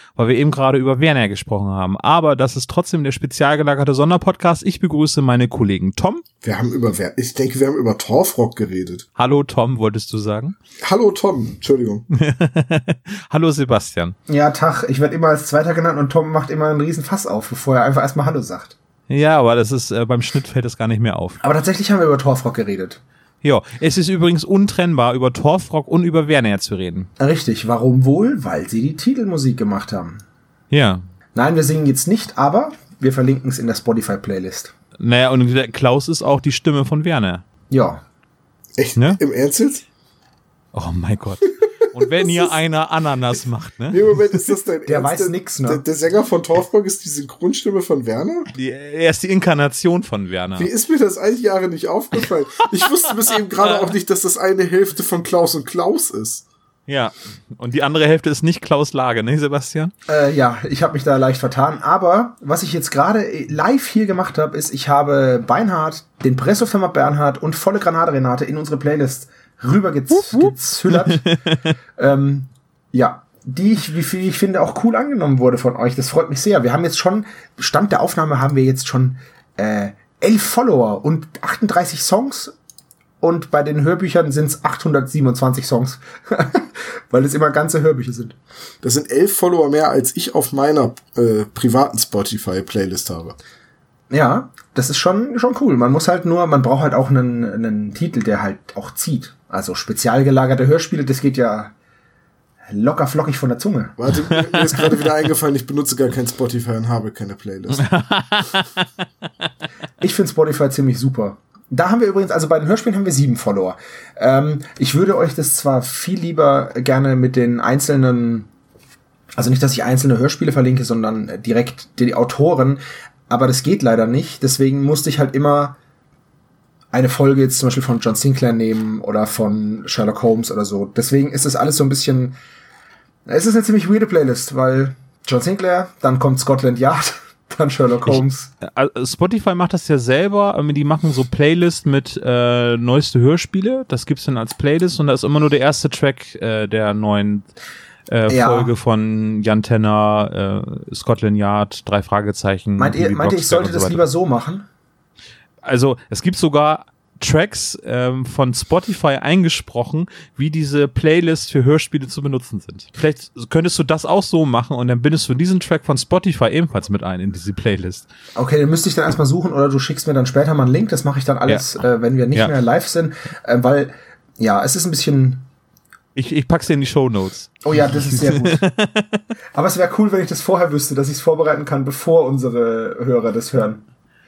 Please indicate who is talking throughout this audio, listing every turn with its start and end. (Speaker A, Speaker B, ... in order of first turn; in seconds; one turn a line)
Speaker A: 0.1-6.2
Speaker B: 6.4-9.1
Speaker A: 9.2-10.6
Speaker B: 10.8-12.1
Speaker A: 12.1-14.2
Speaker C: 14.3-18.8
Speaker A: 19.1-21.4
Speaker C: 21.4-23.0
Speaker A: 23.4-27.1
Speaker C: 27.2-30.2
Speaker A: 30.7-31.0
Speaker C: 31.3-34.7
Speaker A: 35.0-37.4
Speaker C: 37.7-38.0
Speaker B: 38.8-39.8
Speaker A: 40.7-44.3
Speaker B: 42.0-42.6
Speaker B: 43.9-48.5
Speaker C: 44.9-45.8
Speaker A: 48.5-50.7
Speaker B: 50.6-56.4
Speaker A: 53.6-53.9
Speaker A: 56.9-59.9
Speaker C: 60.1-71.3
Speaker A: 70.1-71.6
Speaker C: 72.0-82.5
Speaker C: 83.2-88.4
Speaker B: 88.8-93.4
Speaker C: 94.1-101.7
Speaker C: 102.7-104.0
Speaker B: 104.0-107.9
Speaker A: 104.3-104.9
Speaker A: 107.8-108.8
Speaker C: 110.0-118.5
Speaker C: 119.3-125.8
Speaker C: 126.9-132.3
Speaker C: 133.3-138.5
Speaker A: 138.1-147.4
Speaker A: 148.1-154.1
Speaker C: 148.3-148.7
Speaker C: 152.8-154.7
Speaker A: 155.6-168.1
Speaker C: 168.3-175.4
Speaker A: 176.2-179.2
Speaker C: 177.6-178.6
Speaker C: 179.5-183.8